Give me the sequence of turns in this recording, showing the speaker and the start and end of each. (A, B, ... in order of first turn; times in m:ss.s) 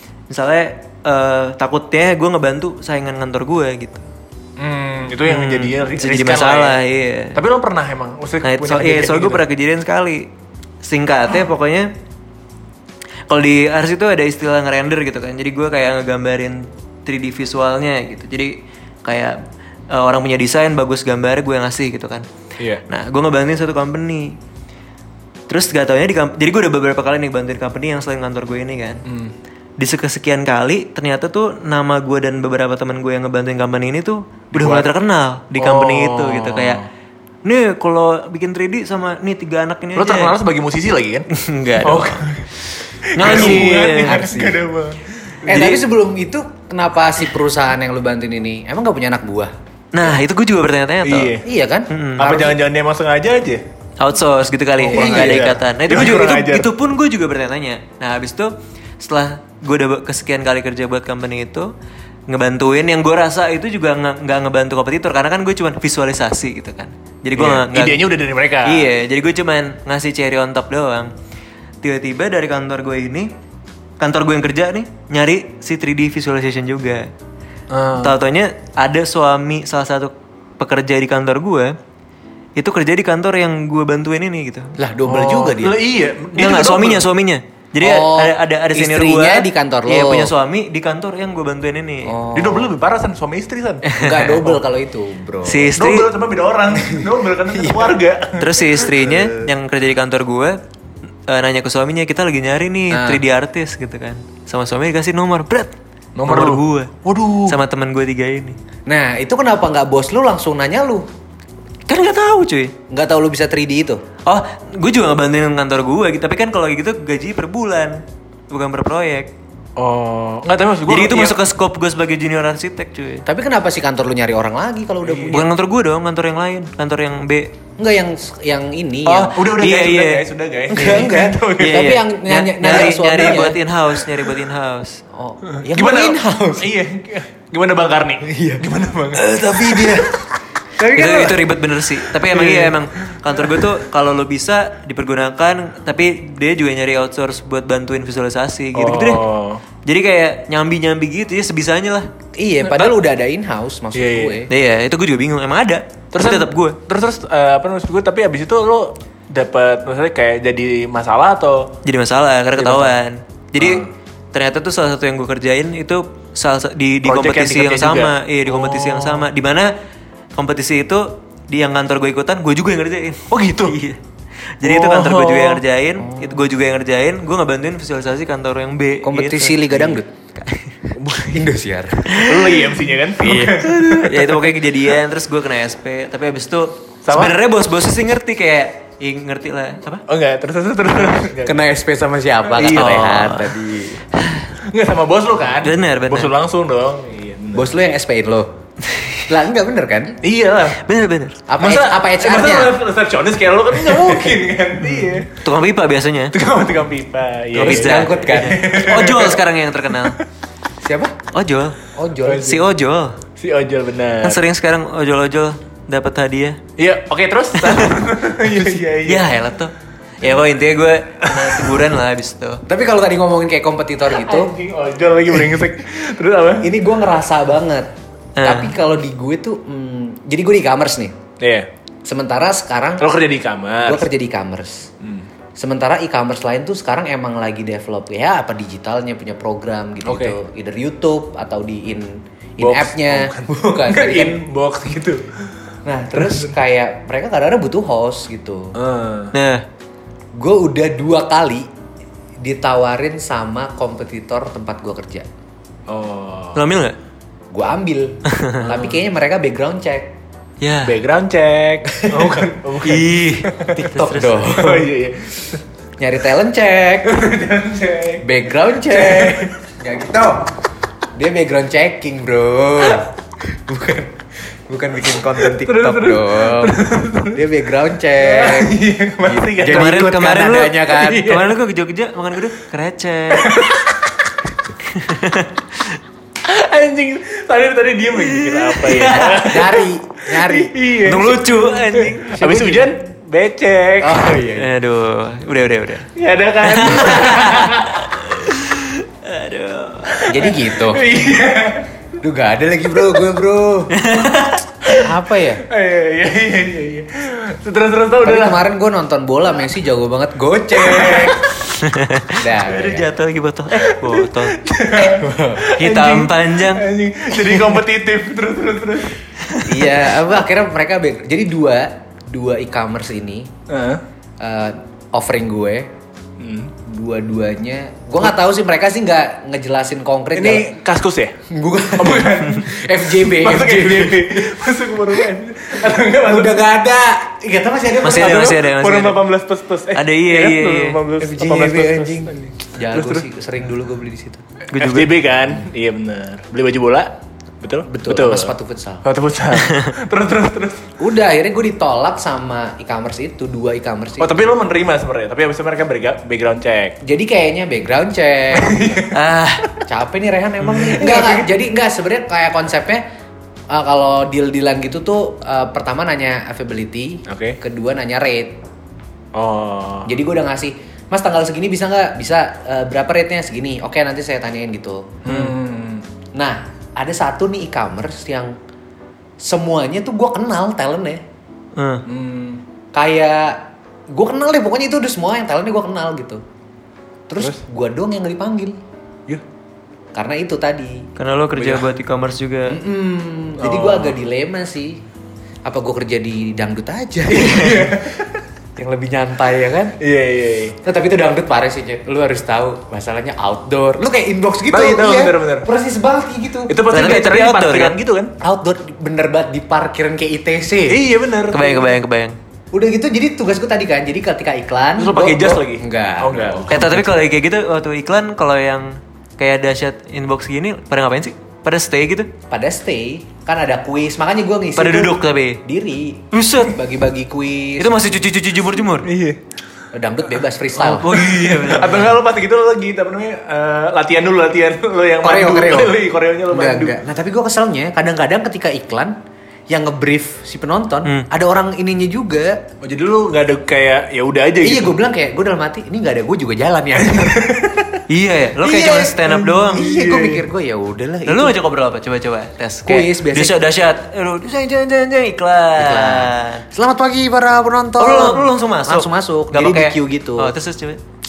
0:00.3-0:04.0 A
0:04.6-0:06.8 B
0:05.2-0:07.4 A
0:07.3-0:09.4 B
0:08.4-0:10.3 A
0:10.8-0:11.9 A
0:13.3-0:19.4 A
0:19.9-0:22.2 A
0:22.6-0:22.8 B
0:22.9-0:24.4 A
0:25.5-0:29.0 A
0:29.0-0:29.3 B
0:29.8-0:36.8 A
0:34.5-0:34.9 B
0:35.6-0:36.8 B
0:37.4-0:40.3 A
0:40.0-0:41.3 B
0:41.3-0:42.3 A
0:41.8-0:42.5 B
0:43.0-0:45.8 B
0:43.1-0:44.2 A
0:43.2-0:44.6 C
0:45.4-0:49.5 C
0:49.9-0:51.3 A
0:51.0-0:51.4 B
0:51.4-0:52.5 C
0:51.9-0:52.4 A
0:52.2-0:53.6 B
0:54.0-1:01.7 A
0:54.8-0:56.7 B
0:54.9-0:55.4 C
1:02.3-1:08.0 A
1:07.3-1:08.9 B
1:08.6-1:11.1 A
1:11.8-1:13.3 A
1:14.0-1:17.1 A
1:17.7-1:18.2 B
1:18.0-1:21.8 A
1:22.6-1:24.7 A
1:24.8-1:25.8 C
1:25.0-1:27.0 B
1:26.3-1:32.1 A
1:27.8-1:30.3 C
1:32.0-1:32.7 C
1:32.3-1:33.9 B
1:33.9-1:34.4 A
1:34.0-1:35.7 C
1:35.4-1:36.1 A
1:35.8-1:38.9 B
1:36.8-1:38.0 C
1:38.4-1:40.6 A
1:39.1-1:39.4 C
1:41.3-1:45.7 A
1:42.9-1:43.2 C
1:46.2-1:47.6 B
1:46.3-1:46.9 A
1:47.5-1:48.6 A
1:48.9-1:51.1 C
1:51.9-1:52.7 A
1:52.9-1:54.0 C
1:54.2-1:59.3 A
1:59.8-2:01.4 B
2:00.9-2:03.2 A
2:03.2-2:05.4 C
2:05.0-2:05.4 B
2:05.3-2:07.5 A
2:07.8-2:09.4 C
2:09.1-2:15.0 A
2:09.2-2:12.0 B
2:10.7-2:13.6 C
2:15.1-2:16.7 C
2:15.5-2:20.2 B
2:18.2-2:20.2 C
2:20.8-2:21.5 C
2:20.9-2:29.2 A
2:22.3-2:23.6 B
2:28.7-2:29.6 B
2:29.8-2:32.1 A
2:32.4-2:34.5 C
2:32.6-2:33.0 B
2:33.9-2:34.4 B
2:34.5-2:36.8 A
2:36.1-2:41.7 B
2:41.8-2:49.7 A
2:42.6-2:43.0 B
2:43.6-2:43.9 B
2:47.0-2:49.3 B
2:50.4-2:54.0 A
2:53.3-2:53.8 B
2:54.6-2:59.8 A
2:54.6-2:55.6 B
2:56.0-2:56.5 C
2:59.0-3:00.2 C
3:00.9-3:01.5 B
3:01.3-3:02.6 C
3:02.1-3:04.6 B
3:02.1-3:02.6 A
3:03.2-3:03.7 C
3:03.6-3:10.0 A
3:07.0-3:07.4 B
3:10.1-3:11.6 B
3:11.4-3:14.0 C
3:12.5-3:13.2 B
3:12.7-3:13.5 A
3:14.1-3:14.5 A
3:14.6-3:17.8 B
3:15.6-3:16.3 A
3:17.5-3:18.5 C
3:18.9-3:19.2 A
3:19.3-3:20.2 C
3:20.2-3:20.8 B
3:20.8-3:21.4 A
3:21.5-3:22.8 C
3:21.6-3:25.3 B
3:25.3-3:26.3 A
3:26.3-3:29.4 B
3:27.6-3:30.2 A
3:27.6-3:28.6 C
3:29.9-3:30.2 B
3:30.8-3:31.2 C
3:31.3-3:31.8 A
3:31.9-3:32.6 C
3:32.2-3:32.6 B
3:32.4-3:33.2 A
3:33.4-3:34.4 B
3:34.2-3:36.6 A
3:36.8-3:39.4 B
3:37.6-3:38.0 A
3:39.0-3:42.6 A
3:41.2-3:41.8 B
3:42.7-3:44.5 C
3:44.1-3:46.7 B
3:46.6-3:47.9 C
3:48.4-3:48.7 A
3:48.4-3:51.2 C
3:51.4-3:51.7 B
3:52.0-3:53.1 C
3:53.0-3:54.1 B
3:53.8-3:54.9 C
3:55.6-4:04.4 C
4:00.0-4:00.4 B
4:02.6-4:05.5 B
4:05.8-4:08.8 C
4:06.2-4:06.5 B
4:08.8-4:09.3 B
4:09.3-4:09.6 A
4:10.3-4:11.7 C
4:12.4-4:15.3 C
4:15.9-4:16.6 B
4:16.5-4:17.0 A
4:17.5-4:20.1 C
4:18.3-4:18.8 A
4:20.6-4:21.0 A
4:20.8-4:23.8 B
4:22.0-4:22.5 C
4:22.8-4:24.5 A
4:23.8-4:24.9 C
4:24.4-4:25.6 B
4:26.0-4:27.2 C
4:27.0-4:28.2 B
4:28.2-4:30.5 C
4:28.8-4:29.5 B
4:31.1-4:36.8 C
4:35.4-4:37.4 B
4:37.3-4:41.4 C
4:38.1-4:40.3 B
4:39.6-4:43.6 A
4:41.0-4:41.5 B
4:43.3-4:44.1 B
4:44.9-4:46.0 A
4:46.4-4:54.4 B
4:48.5-4:49.4 A
4:49.0-4:50.8 C
4:51.0-4:52.5 A
4:52.4-4:52.9 C
4:54.0-4:54.7 C
4:54.6-4:56.1 A
4:56.2-4:58.1 B
4:56.6-5:00.2 A
4:56.8-4:57.4 C
5:00.1-5:01.9 B
5:00.3-5:01.1 C
5:02.2-5:03.9 C
5:03.9-5:04.7 A
5:04.9-5:05.6 C
5:05.6-5:08.6 B
5:08.2-5:11.5 C
5:10.7-5:11.5 B
5:11.8-5:14.6 A
5:12.4-5:13.1 C
5:13.8-5:19.2 B
5:15.0-5:15.7 C
5:15.8-5:16.8 A
5:19.6-5:23.5 C
5:23.7-5:24.0 B
5:24.4-5:25.9 C
5:26.4-5:26.7 B
5:26.8-5:30.7 C
5:30.3-5:31.4 B
5:31.5-5:34.8 C
5:32.0-5:36.7 B
5:36.2-5:38.6 C
5:38.0-5:39.2 A
5:38.0-5:43.2 B
5:39.9-5:41.0 A
5:41.2-5:44.4 C
5:44.7-5:45.1 A
5:44.7-5:47.1 B
5:47.6-5:48.5 B
5:47.9-5:49.0 C
5:49.0-5:50.9 B
5:49.6-5:49.9 A
5:51.0-5:54.4 C
5:54.2-5:57.0 B
5:57.0-5:58.8 C
5:58.5-5:59.1 B
5:59.1-5:59.7 A
5:59.8-6:03.0 C
6:00.6-6:01.0 A
6:00.8-6:01.5 B
6:03.7-6:08.6 C
6:07.3-6:07.6 B
6:09.3-6:10.1 B
6:10.0-6:15.2 C
6:15.2-6:16.0 B
6:16.3-6:18.5 C
6:19.4-6:21.2 C
6:21.8-6:22.0 A
6:22.1-6:22.6 B
6:22.9-6:26.4 C
6:27.3-6:28.8 C
6:30.1-6:31.1 C
6:31.2-6:32.8 A
6:31.5-6:31.9 B
6:32.7-6:35.0 C
6:33.6-6:34.2 B
6:35.6-6:38.0 C
6:37.3-6:38.4 B
6:38.8-6:40.0 C
6:40.0-6:40.8 B
6:40.8-6:46.8 C
6:44.7-6:45.7 B
6:46.7-6:48.3 B
6:46.9-6:48.0 A
6:48.4-6:51.0 C
6:50.9-6:51.9 B
6:51.5-6:52.4 A
6:52.7-6:57.0 C
6:55.0-6:56.9 B
6:56.7-7:02.3 A
7:02.5-7:08.3 C
7:04.8-7:05.6 A
7:06.3-7:06.8 A
7:07.8-7:09.1 A
7:09.0-7:09.4 B
7:09.9-7:11.2 C
7:10.8-7:12.1 A
7:11.3-7:16.9 B
7:15.2-7:16.0 C
7:16.5-7:19.2 C
7:19.7-7:22.6 C
7:22.8-7:25.0 B
7:24.6-7:27.6 C
7:27.1-7:28.0 B
7:28.1-7:29.8 A
7:28.6-7:31.6 C
7:29.2-7:30.4 B
7:31.2-7:36.6 A
7:32.8-7:33.6 C
7:35.8-7:40.5 C
7:38.0-7:41.0 A